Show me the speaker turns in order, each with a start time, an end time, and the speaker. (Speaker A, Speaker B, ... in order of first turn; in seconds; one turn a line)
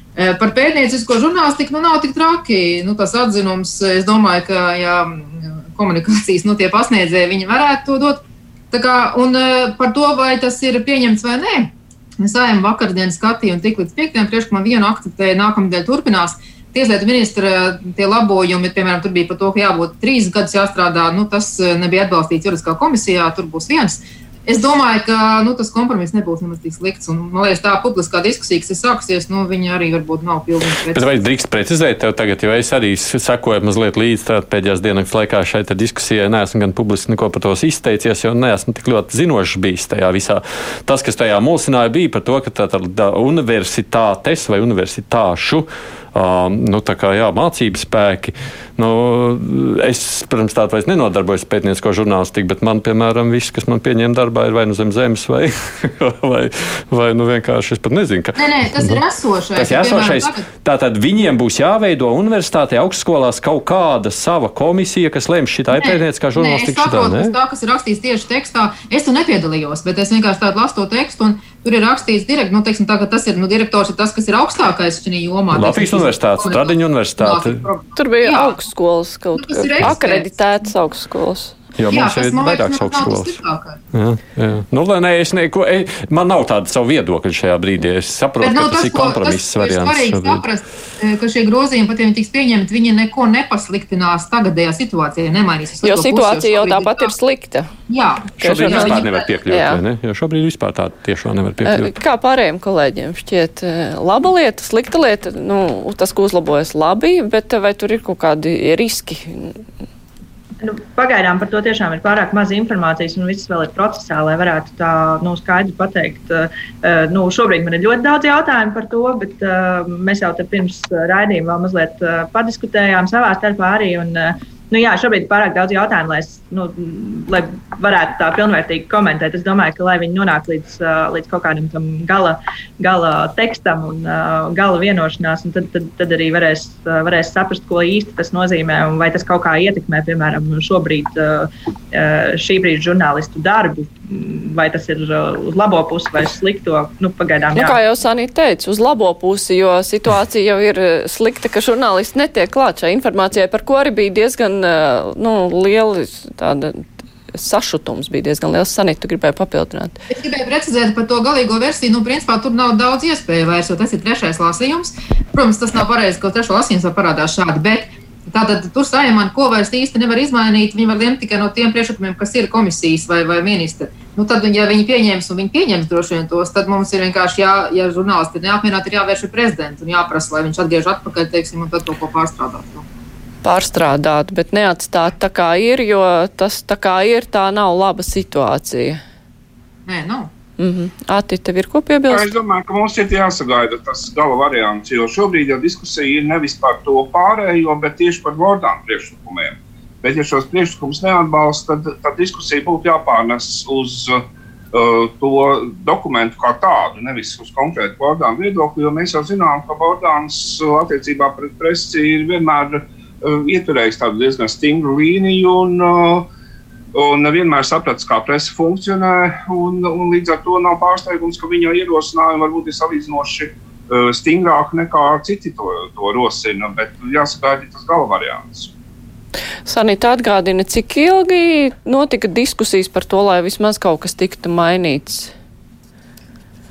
Speaker A: 0.1-31.1
Speaker B: 30.9-59.0
Speaker A: 58.4-60.4
Speaker B: 59.5-67.3
Speaker A: 65.7-78.6
Speaker B: 75.5-77.6
Speaker C: 78.0-81.6
Speaker A: 79.3-80.3
Speaker B: 81.8-83.4
Speaker A: 81.9-83.8
Speaker B: 83.9-90.4
Speaker A: 88.4-97.1
Speaker C: 95.8-97.7
Speaker A: 97.9-99.3
Speaker B: 98.4-101.9
Speaker C: 98.5-99.8
Speaker C: 101.6-109.6
Speaker D: 110.6-147.8
Speaker C: 147.5-160.0
Speaker A: 160.1-182.8
Speaker C: 183.4-189.0
Speaker A: 189.8-190.3
Speaker C: 190.6-192.3
Speaker E: 192.1-216.3
Speaker E: 216.9-228.7
Speaker C: 229.7-235.3